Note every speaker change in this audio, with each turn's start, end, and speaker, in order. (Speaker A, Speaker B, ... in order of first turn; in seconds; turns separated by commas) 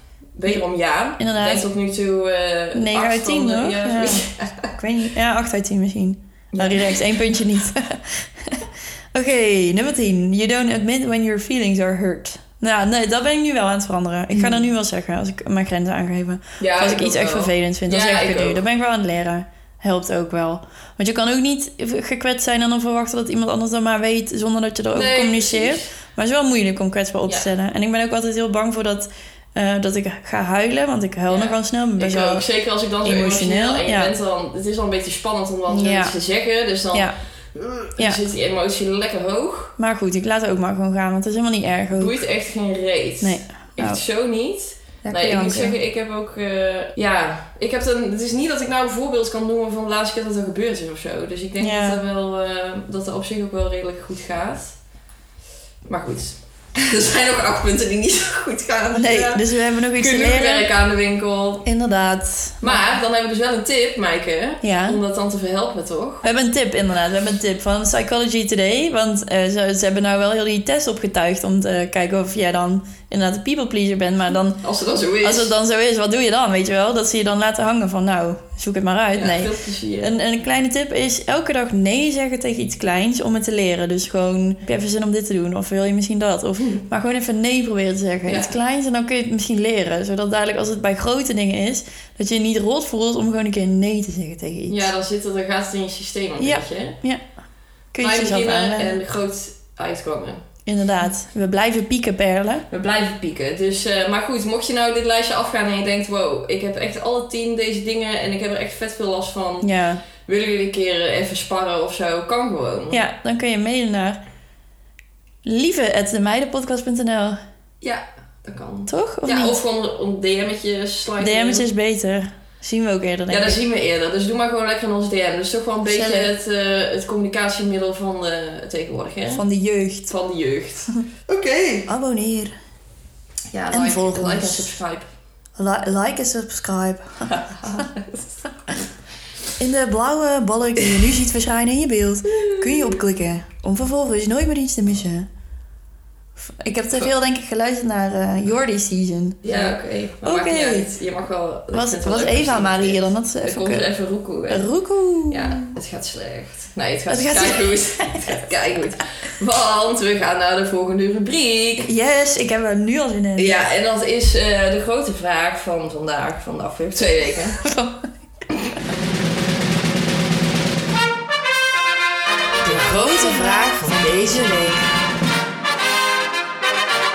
Speaker A: 0.3-4.7, Speaker B: 1.2-1.6, Speaker B: 2.7-32.4, Speaker A: 6.5-7.0, Speaker A: 14.3-14.6, Speaker A: 16.6-18.6, Speaker A: 24.9-25.9, Speaker A: 31.3-39.7, Speaker B: 33.0-34.1, Speaker B: 35.7-36.1, Speaker B: 39.8-42.2, Speaker A: 42.0-54.8, Speaker B: 43.2-44.0, Speaker B: 45.0-45.8, Speaker B: 51.6-52.0, Speaker A: 55.9-61.7, Speaker B: 58.9-60.7, Speaker B: 61.6-62.9, Speaker A: 62.6-66.2, Speaker B: 64.6-65.0, Speaker B: 66.2-74.6, Speaker A: 74.6-75.5, Speaker B: 75.2-94.9, Speaker A: 79.1-80.1, Speaker A: 88.2-88.5, Speaker A: 94.7-97.0, Speaker B: 96.4-97.2, Speaker B: 97.9-98.9, Speaker A: 98.0-100.4, Speaker B: 100.7-102.6, Speaker A: 102.7-109.7, Speaker B: 109.6-110.0, Speaker A: 110.2-113.0, Speaker B: 112.9-114.2, Speaker B: 115.4-117.4, Speaker A: 117.8-121.7, Speaker B: 118.9-119.6, Speaker B: 121.2-123.6, Speaker A: 123.3-129.4, Speaker B: 125.8-126.3, Speaker B: 129.3-130.1, Speaker A: 130.1-131.9, Speaker B: 131.9-132.5, Speaker A: 133.5-135.1, Speaker B: 133.7-134.7, Speaker B: 135.6-137.3, Speaker A: 137.3-138.8, Speaker B: 139.6-145.3, Speaker B: 146.4-150.9, Speaker A: 149.4-154.6, Speaker B: 151.7-153.9, Speaker B: 154.5-155.7, Speaker A: 155.3-161.9, Speaker B: 157.1-158.3, Speaker B: 161.8-163.6, Speaker A: 163.4-167.6, Speaker B: 167.6-168.1, Speaker A: 172.6-174.8, Speaker B: 172.6-174.9